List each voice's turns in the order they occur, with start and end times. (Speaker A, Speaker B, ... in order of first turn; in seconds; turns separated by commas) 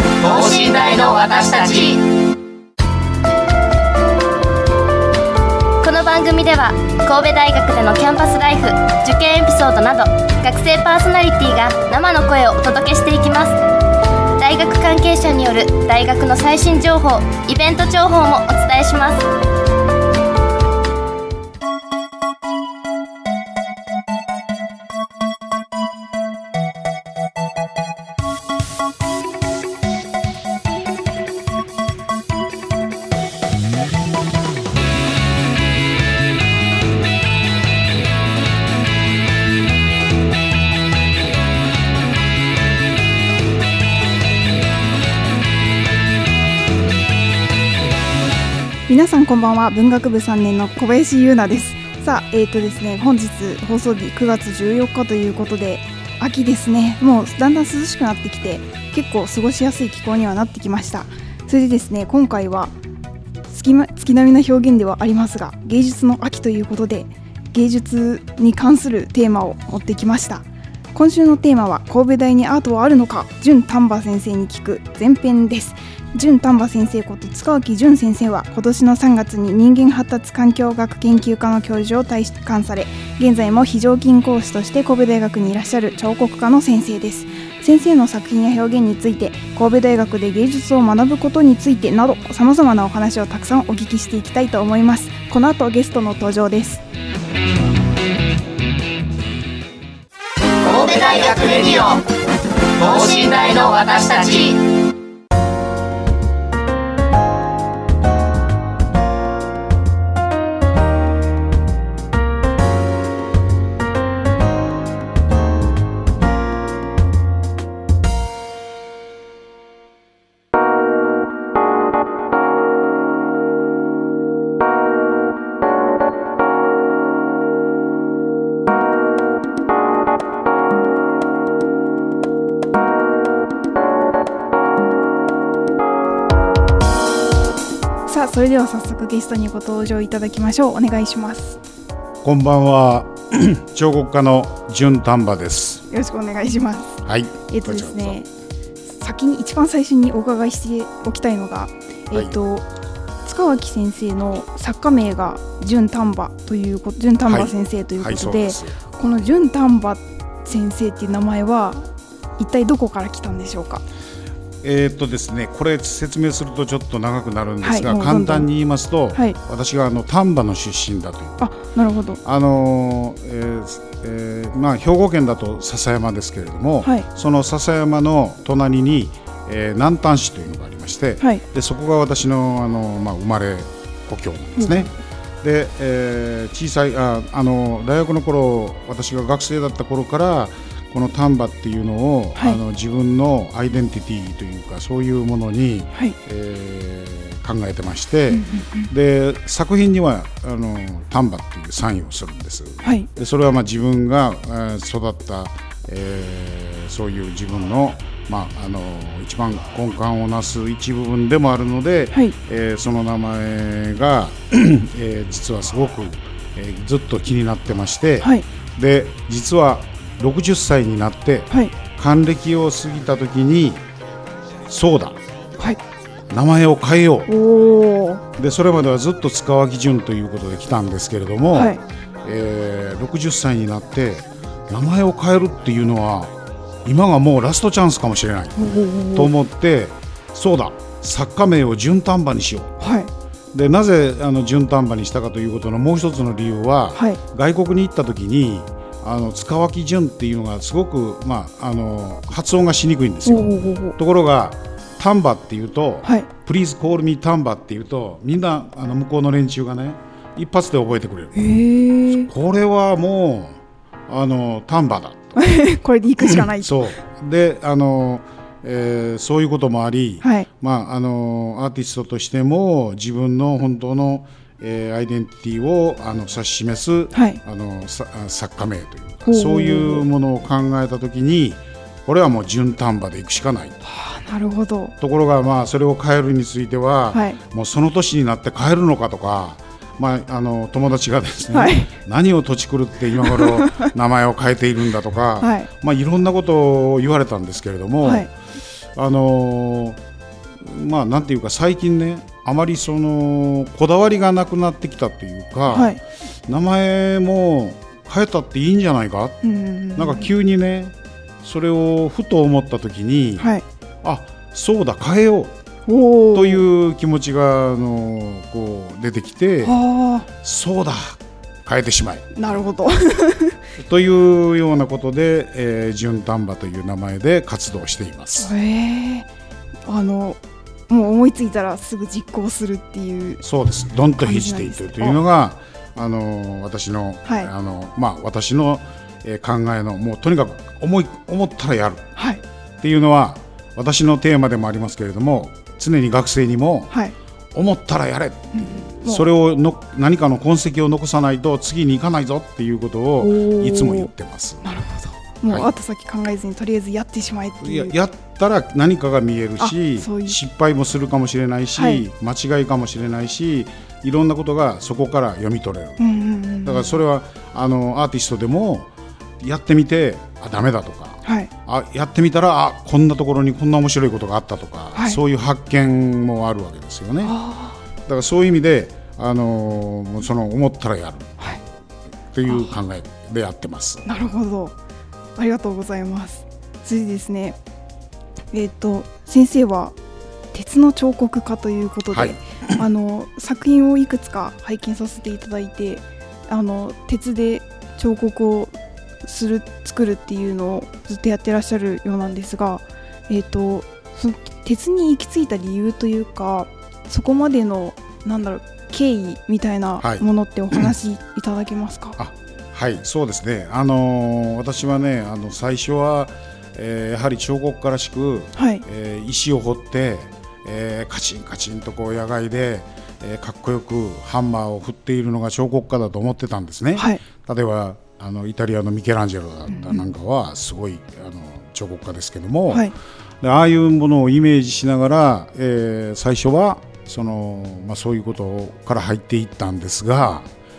Speaker A: 0.2-2.0, Speaker B: 5.8-13.6, Speaker B: 14.4-19.3, Speaker C: 48.9-62.7, Speaker C: 63.5-96.8, Speaker A: 100.6-102.1, Speaker A: 102.8-104.6, Speaker C: 138.1-141.6, Speaker D: 142.2-145.8, Speaker C: 145.9-148.3, Speaker D: 147.1-148.2, Speaker C: 148.9-152.7, Speaker C: 153.2-163.8, Speaker D: 157.3-158.8, Speaker D: 164.6-171.4, Speaker C: 167.6-168.5, Speaker C: 171.4-172.2, Speaker D: 172.2-223.8, Speaker C: 184.6-184.9, Speaker C: 198.3-198.9, Speaker C: 202.8-203.1, Speaker D: 224.7-225.2, Speaker D: 226.3-227.3, Speaker C: 227.3-228.2, Speaker D: 228.3-236.3, Speaker C: 231.5-231.8, Speaker D: 236.8-242.8, Speaker C: 238.6-239.3, Speaker C: 242.8-243.1, Speaker D: 243.5-261.6, Speaker C: 246.9-247.2, Speaker C: 253.2-254.0, Speaker C: 261.4-262.3, Speaker D: 262.1-263.6, Speaker D: 264.1-265.4, Speaker C: 265.4-266.8, Speaker D: 266.2-283.8, Speaker C: 270.2-270.5, Speaker C: 277.1-277.4, Speaker C: 279.3-280.1, Speaker C: 283.8-284.9, Speaker D: 285.0-298.3, Speaker C: 287.1-287.4, Speaker C: 291.5-291.9, Speaker C: 293.2-293.9, Speaker C: 295.4-295.7, Speaker C: 298.0-298.3, Speaker D: 298.9-300.0, Speaker D: 300.6-309.4, Speaker C: 305.7-306.0, Speaker C: 309.4-310.3, Speaker D: 309.9-313.5, Speaker C: 313.4-313.6, Speaker D: 314.0-315.5, Speaker C: 315.9-316.6, Speaker D: 316.3-319.8, Speaker C: 319.6-320.3, Speaker D: 320.4-322.6, Speaker C: 322.4-323.6, Speaker D: 323.8-328.5, Speaker C: 328.4-329.3, Speaker C: 329.9-333.4, Speaker D: 333.4-342.1, Speaker C: 334.2-335.2, Speaker C: 337.3-337.5, Speaker C: 342.2-342.4, Speaker D: 342.8-346.9, Speaker D: 347.5-354.6, Speaker C: 348.5-349.2, Speaker C: 353.2-354.1, Speaker C: 354.6-357.9, Speaker D: 357.6-366.0, Speaker C: 359.6-360.4, Speaker C: 361.8-362.1, Speaker C: 366.0-367.0, Speaker D: 366.6-368.9, Speaker D: 369.4-377.4, Speaker C: 371.2-371.5, Speaker C: 374.9-375.2, Speaker C: 377.2-377.8, Speaker D: 378.1-381.4, Speaker D: 382.3-384.1, Speaker C: 382.5-382.8, Speaker C: 384.1-384.8, Speaker C: 385.4-387.6, Speaker C: 388.5-389.9, Speaker C: 390.5-412.2, Speaker D: 392.1-392.4, Speaker D: 410.0-410.9, Speaker D: 412.2-440.5, Speaker C: 418.6-418.8, Speaker C: 427.0-427.2, Speaker C: 429.7-430.0